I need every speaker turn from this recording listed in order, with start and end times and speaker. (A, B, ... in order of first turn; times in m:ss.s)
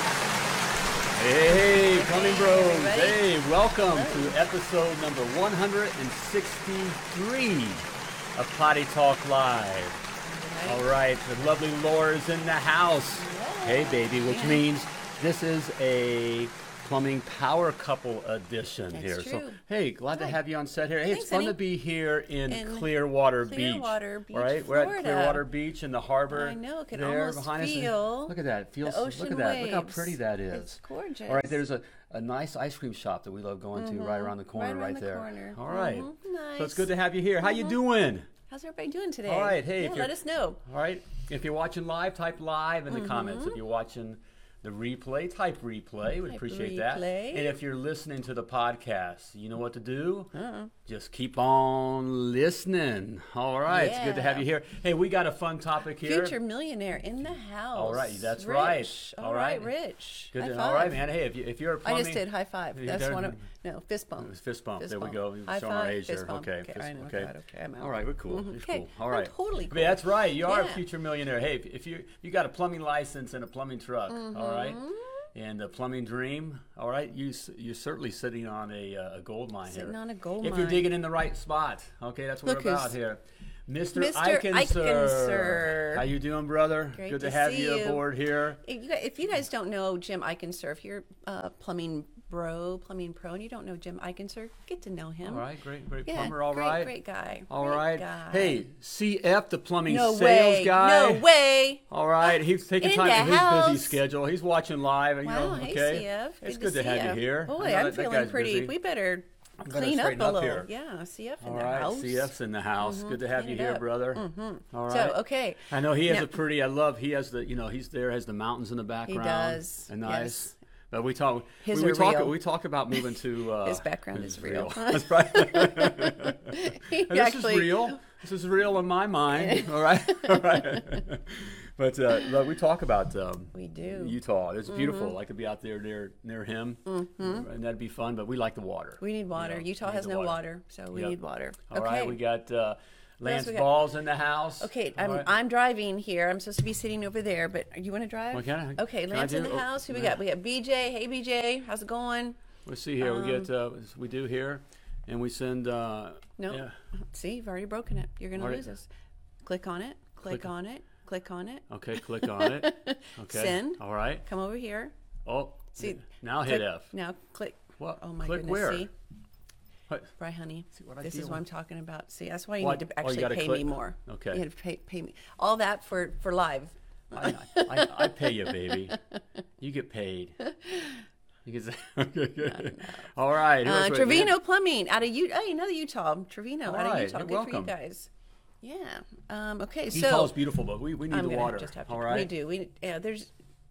0:01.2-0:10.0 A
0:01.5-0:03.3 B
0:03.9-0:04.4 B
0:10.2-0:10.8 B
0:10.6-0:38.3 A
0:13.2-0:14.6 B
0:18.9-0:19.6 B
0:21.1-0:21.6 B
0:22.5-0:22.9 B
0:23.4-0:25.4 B
0:26.3-0:31.6 B
0:33.8-0:36.9 B
0:38.5-0:40.6 B
0:39.2-0:50.3 A
0:42.9-0:43.6 B
0:46.2-0:47.5 B
0:50.3-0:50.7 B
0:50.8-0:56.4 A
0:53.7-0:54.4 B
0:56.0-1:01.0 B
0:57.7-0:59.7 A
1:00.3-1:03.4 A
1:01.8-1:10.8 B
1:04.2-1:28.6 A
1:14.1-1:15.0 B
1:19.7-1:20.9 B
1:22.4-1:22.9 B
1:23.9-1:26.1 B
1:26.9-1:28.1 B
1:28.6-1:35.4 B
1:35.2-1:36.9 A
1:36.0-1:38.6 B
1:37.5-1:41.3 A
1:39.9-1:41.8 B
1:41.9-1:48.7 A
1:42.8-1:44.0 B
1:45.2-1:56.3 B
1:49.6-1:50.7 A
1:51.4-2:20.4 A
1:59.1-2:00.5 B
2:01.6-2:02.4 B
2:03.0-2:08.0 B
2:09.4-2:09.7 B
2:10.3-2:11.0 B
2:13.5-2:14.2 B
2:14.7-2:15.1 B
2:16.9-2:17.4 B
2:19.0-2:22.2 B
2:21.7-2:25.3 A
2:23.2-2:23.7 B
2:24.6-2:32.4 B
2:28.3-2:30.2 A
2:32.6-2:36.7 A
2:33.0-2:33.5 B
2:36.4-2:38.9 B
2:38.4-2:38.6 A
2:39.4-2:41.6 B
2:41.7-2:44.2 A
2:42.2-2:44.9 B
2:45.2-2:46.9 A
2:45.8-2:48.9 B
2:47.8-2:48.9 A
2:50.2-2:58.3 B
2:50.7-2:51.4 A
2:52.6-2:54.4 A
2:57.1-2:59.0 A
2:59.6-3:00.4 A
3:00.6-3:01.0 B
3:01.4-3:04.4 A
3:02.5-3:03.1 B
3:03.6-3:08.1 B
3:06.6-3:07.7 A
3:08.6-3:10.4 B
3:09.9-3:12.3 A
3:11.1-3:13.3 B